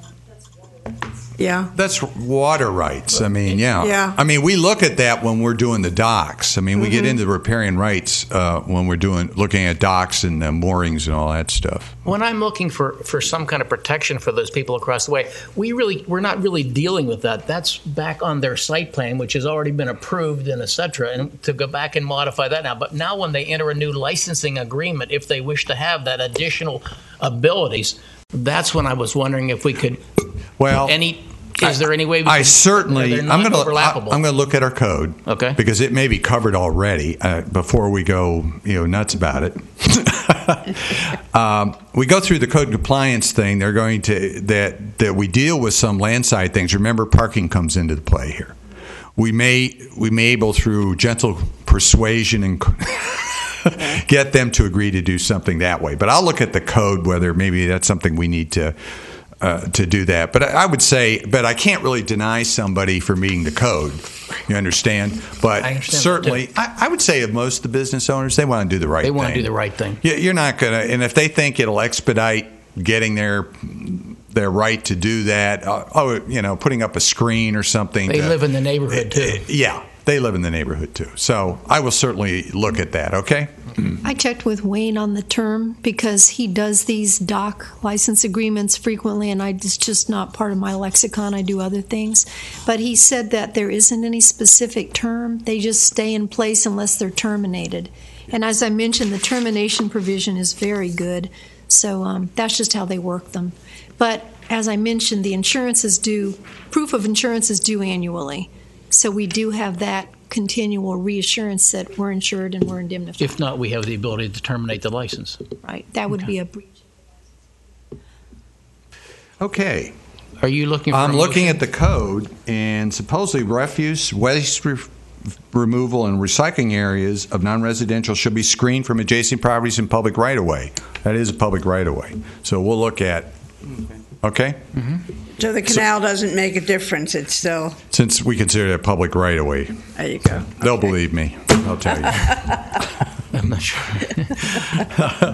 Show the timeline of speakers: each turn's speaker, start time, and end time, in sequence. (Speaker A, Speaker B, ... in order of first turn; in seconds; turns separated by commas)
Speaker A: 1.4-1.7, Speaker B: 1.7-12.0, Speaker A: 3.8-4.2, Speaker C: 12.0-30.0, Speaker B: 30.6-31.0, Speaker C: 30.8-34.2, Speaker B: 31.6-48.5, Speaker C: 35.3-35.6, Speaker B: 49.2-58.7, Speaker B: 59.4-69.5, Speaker C: 65.6-66.4, Speaker C: 69.0-70.0, Speaker B: 70.0-78.4, Speaker C: 78.1-79.5, Speaker B: 78.9-84.0, Speaker D: 84.0-113.4, Speaker C: 113.2-115.5, Speaker D: 115.6-116.8, Speaker B: 119.4-119.9, Speaker C: 120.4-121.6, Speaker B: 120.9-124.9, Speaker B: 125.5-133.3, Speaker B: 134.2-134.6, Speaker A: 135.4-137.8, Speaker B: 137.9-139.7, Speaker A: 139.9-140.6, Speaker B: 140.6-142.5, Speaker C: 143.3-144.8